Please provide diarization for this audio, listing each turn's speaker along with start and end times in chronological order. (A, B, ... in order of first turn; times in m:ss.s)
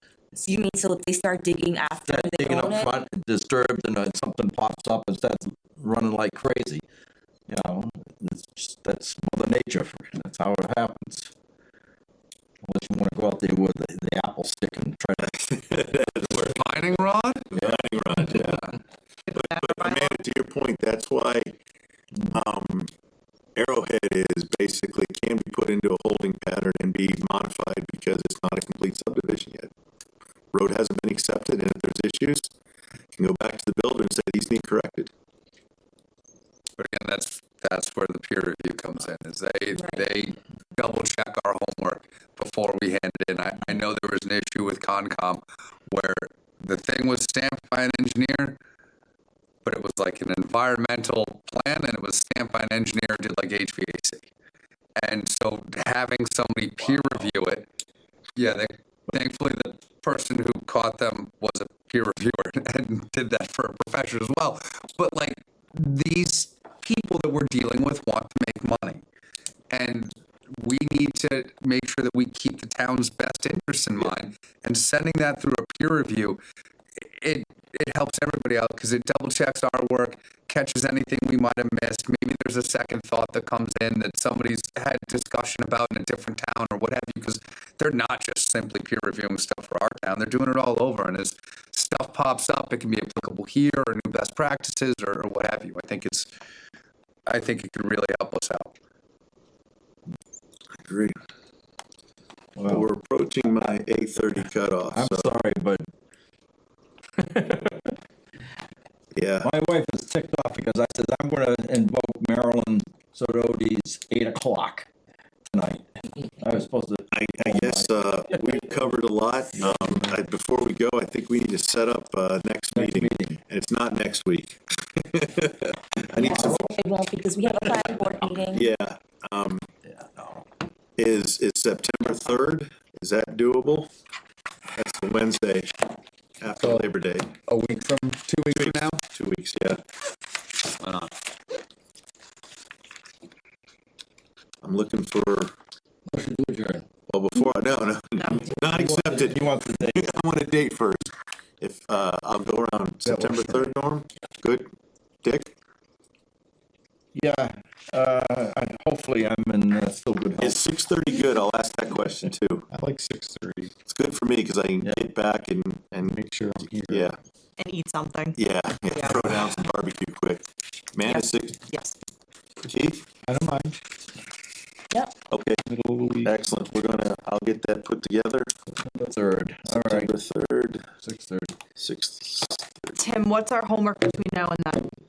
0:00.4-0:03.0 A
0:02.1-0:06.8 B
0:07.5-0:11.3 B
0:12.6-0:15.3 B
0:15.2-0:16.5 C
0:16.3-0:17.5 D
0:17.5-0:18.7 C
0:19.3-0:20.2 E
0:19.3-0:21.5 C
0:22.3-0:22.9 C
0:23.6-0:29.7 C
0:30.5-0:32.5 C
0:33.1-0:35.1 C
0:36.8-0:48.6 D
0:49.6-0:54.3 D
0:55.0-0:57.7 D
0:58.4-1:09.0 D
1:09.7-1:16.4 D
1:17.0-1:36.3 D
1:37.3-1:38.7 D
1:40.8-1:41.2 C
1:42.6-1:42.9 B
1:42.6-1:45.4 C
1:44.9-1:45.8 B
1:47.2-1:47.9 B
1:49.1-1:49.5 C
1:49.4-1:54.9 B
1:55.5-1:55.9 B
1:56.4-1:58.6 B
1:57.1-2:06.7 C
1:59.6-2:00.0 B
2:02.7-2:03.4 B
2:06.2-2:06.8 B
2:06.2-2:08.6 A
2:08.5-2:09.6 C
2:09.8-2:10.4 B
2:11.0-2:13.9 C
2:14.7-2:15.8 C
2:16.4-2:17.3 C
2:16.6-2:16.9 D
2:17.5-2:19.0 D
2:18.5-2:19.8 C
2:20.7-2:21.1 D
2:24.6-2:25.5 C
2:26.1-2:26.8 B
2:27.1-2:34.7 C
2:28.2-2:28.6 E
2:28.6-2:30.2 B
2:35.2-2:35.5 C
2:37.1-2:40.6 B
2:40.4-2:42.7 C
2:42.9-2:43.7 F
2:43.8-2:46.2 C
2:46.4-2:46.7 F
2:46.8-2:47.2 C
2:47.6-2:48.4 E
2:48.3-2:51.6 C
2:48.9-2:49.2 E
2:51.0-2:51.9 E
2:52.6-2:53.0 C
2:53.3-2:53.8 F
2:55.3-2:55.6 C
2:55.8-2:56.2 F
2:56.2-2:58.5 C
2:58.8-3:00.1 B
2:59.7-3:00.9 C
3:01.0-3:01.5 B
3:01.8-3:03.0 C
3:03.0-3:04.9 E